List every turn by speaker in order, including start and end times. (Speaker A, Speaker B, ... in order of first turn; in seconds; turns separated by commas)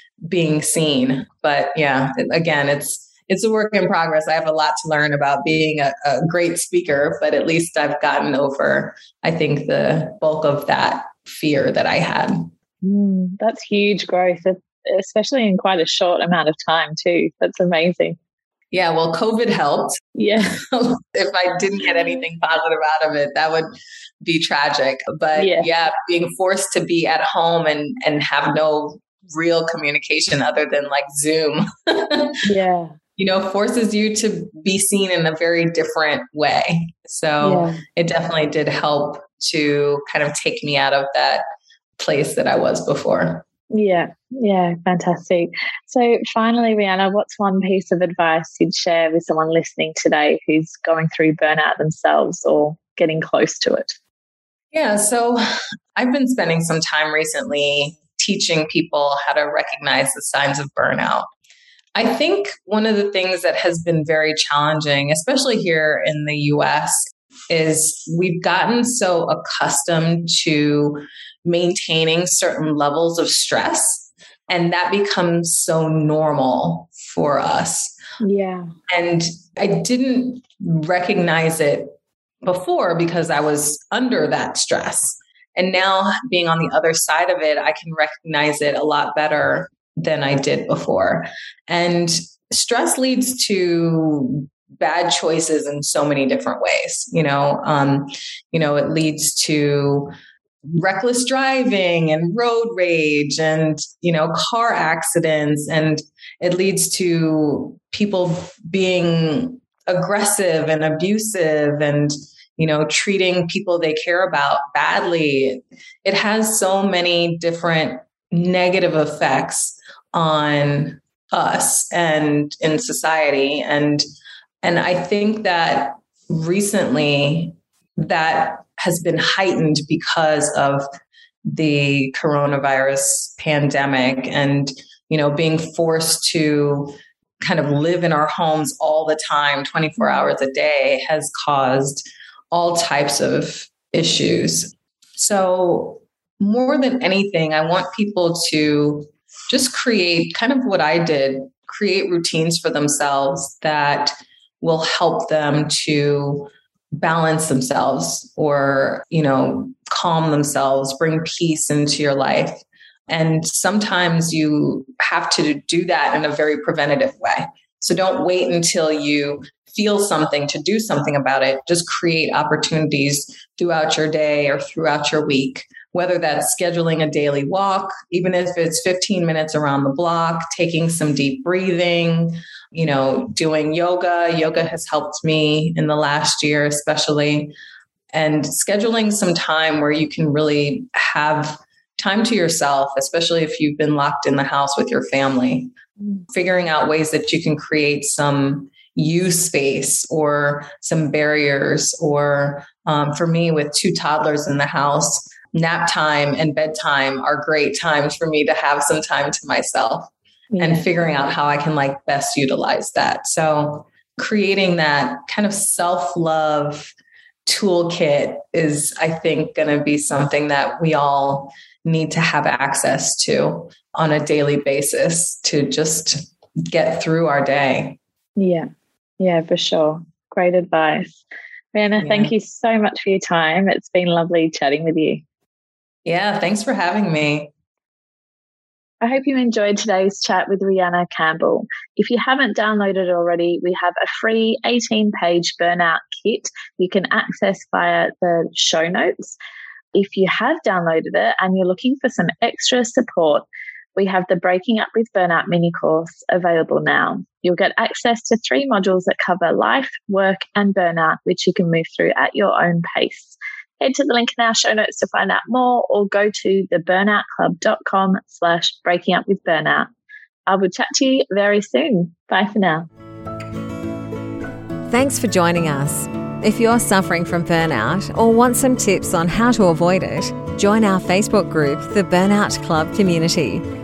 Speaker A: 0.3-12.5, Speaker B: 12.8-18.2, Speaker A: 18.7-32.3, Speaker B: 20.1-20.6, Speaker B: 25.4-25.7, Speaker B: 32.4-33.0, Speaker A: 33.2-41.4, Speaker B: 37.4-37.8, Speaker A: 42.0-43.4, Speaker B: 43.7-54.0, Speaker A: 54.7-55.4, Speaker A: 55.9-61.3, Speaker A: 61.9-78.0, Speaker B: 78.2-78.7, Speaker A: 78.9-100.1, Speaker A: 100.6-124.0, Speaker A: 124.6-130.8, Speaker A: 131.5-187.5, Speaker B: 140.0-140.3, Speaker A: 188.1-195.7, Speaker A: 196.3-216.9, Speaker B: 210.5-210.9, Speaker A: 217.4-228.0, Speaker B: 228.4-228.7, Speaker B: 229.2-231.2, Speaker B: 231.7-235.2, Speaker A: 232.0-232.3, Speaker A: 236.1-237.5, Speaker B: 239.0-249.4, Speaker B: 249.9-269.9, Speaker B: 270.5-272.9, Speaker C: 274.9-283.6